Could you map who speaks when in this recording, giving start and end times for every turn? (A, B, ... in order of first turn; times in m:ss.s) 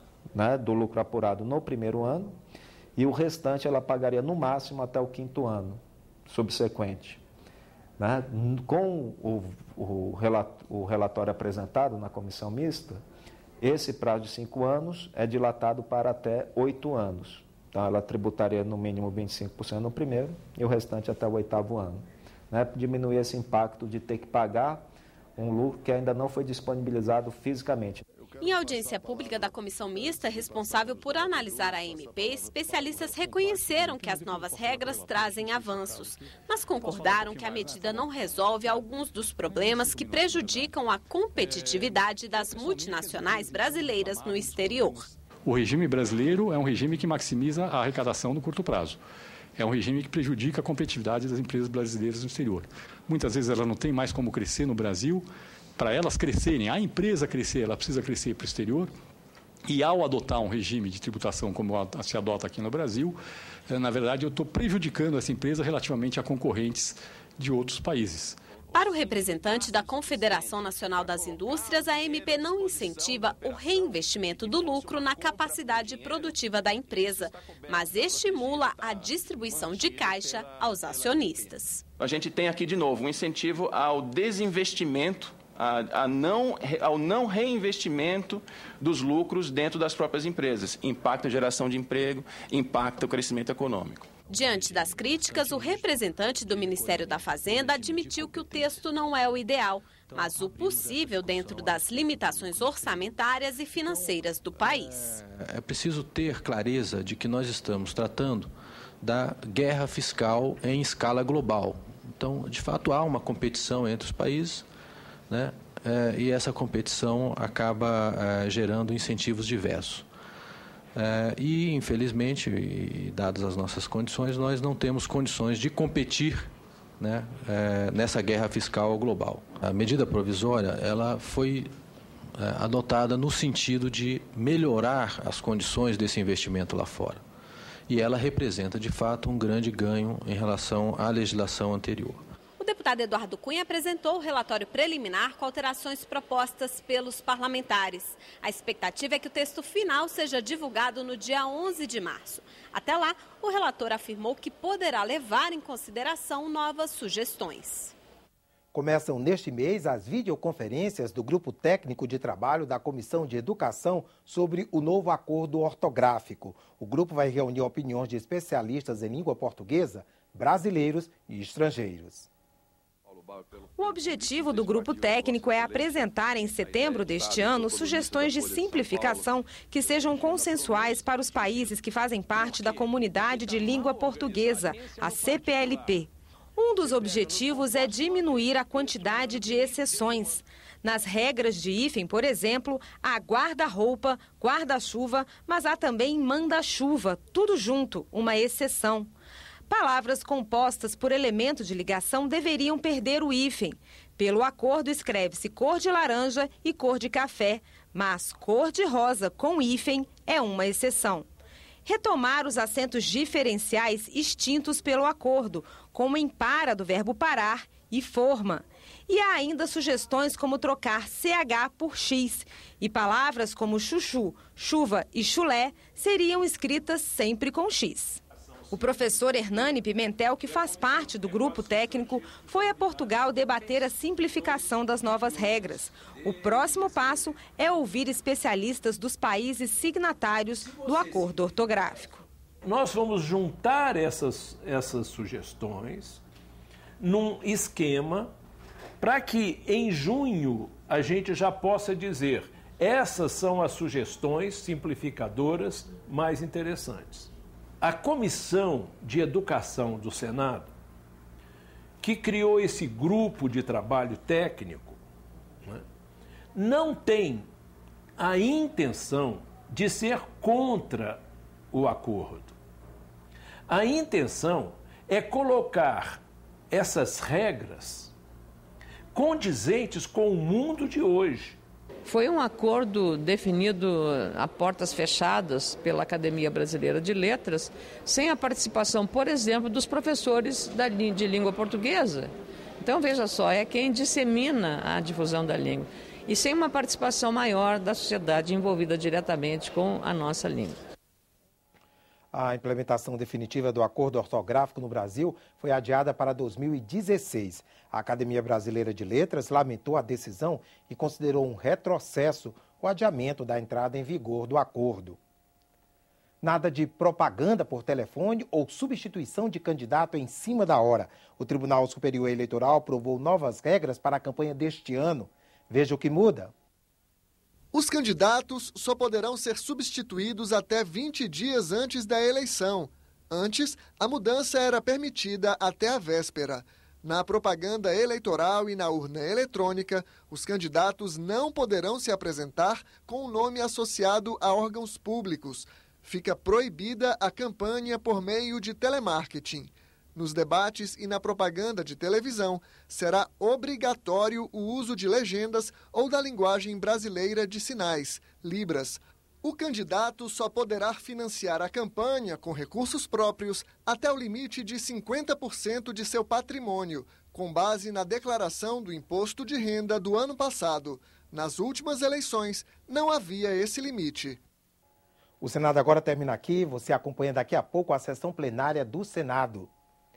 0:00.4-0:02.3 A
0:03.0-0:07.2 A
0:08.0-0:13.0 A
0:13.6-0:24.8 A
0:25.4-0:28.0 A
0:28.4-0:45.1 B
0:33.4-0:36.0 C
0:36.8-0:38.1 C
0:39.9-0:40.6 C
0:45.4-0:49.0 C
0:49.6-0:55.3 C
0:55.8-0:58.9 C
0:59.7-1:03.2 C
1:03.7-1:08.4 C
1:08.7-1:21.8 B
1:18.4-1:19.0 D
1:22.0-1:34.1 D
1:34.3-1:45.2 B
1:40.9-1:41.6 E
1:44.7-1:48.5 E
1:49.0-1:54.7 E
1:55.3-2:00.1 E
2:01.0-2:11.7 E
2:12.4-2:17.2 E
2:17.9-2:22.2 E
2:22.6-2:37.9 B
2:38.7-2:52.3 F
2:53.8-3:19.1 G
2:54.0-2:56.0 D
2:56.7-2:59.3 D
3:19.7-3:31.3 G
3:31.9-3:48.2 G
3:48.7-4:02.2 G
4:02.6-4:06.2 H
4:07.0-4:08.3 H
4:09.0-4:20.7 H
4:22.0-4:25.0 H
4:26.6-4:27.5 H
4:28.2-4:32.6 H
4:33.7-4:38.1 H
4:39.1-4:41.6 H
4:42.0-5:00.8 I
5:02.3-5:15.2 F
5:16.4-5:26.5 F
5:27.7-6:14.4 J
6:15.4-6:19.7 F